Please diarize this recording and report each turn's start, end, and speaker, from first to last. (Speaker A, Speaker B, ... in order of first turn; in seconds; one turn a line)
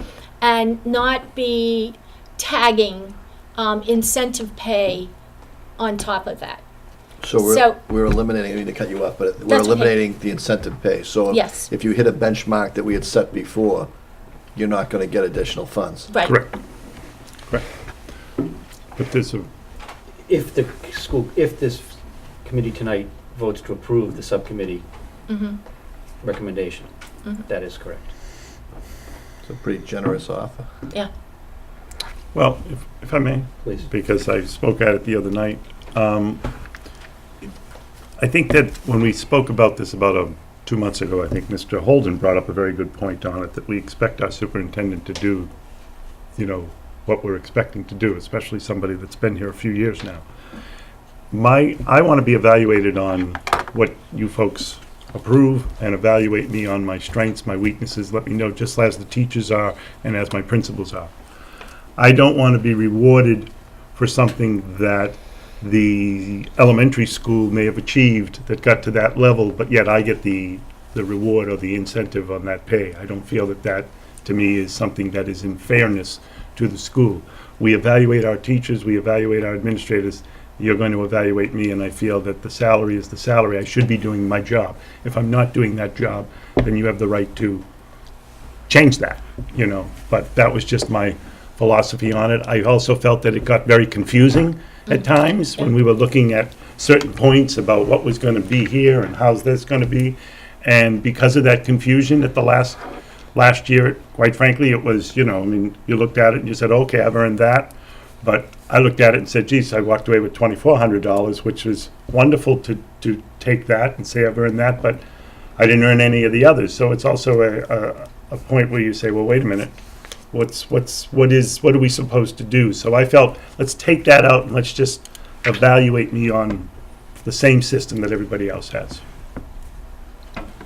Speaker A: 0.4-5.1
Speaker A: 5.8-6.6
Speaker B: 7.2-13.9
Speaker A: 7.4-7.8
Speaker A: 9.5-9.9
Speaker A: 11.3-11.7
Speaker B: 14.5-16.1
Speaker A: 16.1-16.4
Speaker C: 19.0-19.5
Speaker D: 20.2-24.8
Speaker A: 25.3-25.6
Speaker D: 26.2-26.9
Speaker D: 27.4-28.1
Speaker B: 29.4-30.7
Speaker C: 32.3-36.4
Speaker D: 33.6-33.9
Speaker C: 38.2-45.5
Speaker C: 46.4-50.2
Speaker C: 51.3-61.1
Speaker C: 62.0-87.6
Speaker C: 88.7-102.8
Speaker C: 103.3-115.0
Speaker C: 115.6-119.7
Speaker C: 120.3-126.7
Speaker C: 127.2-129.0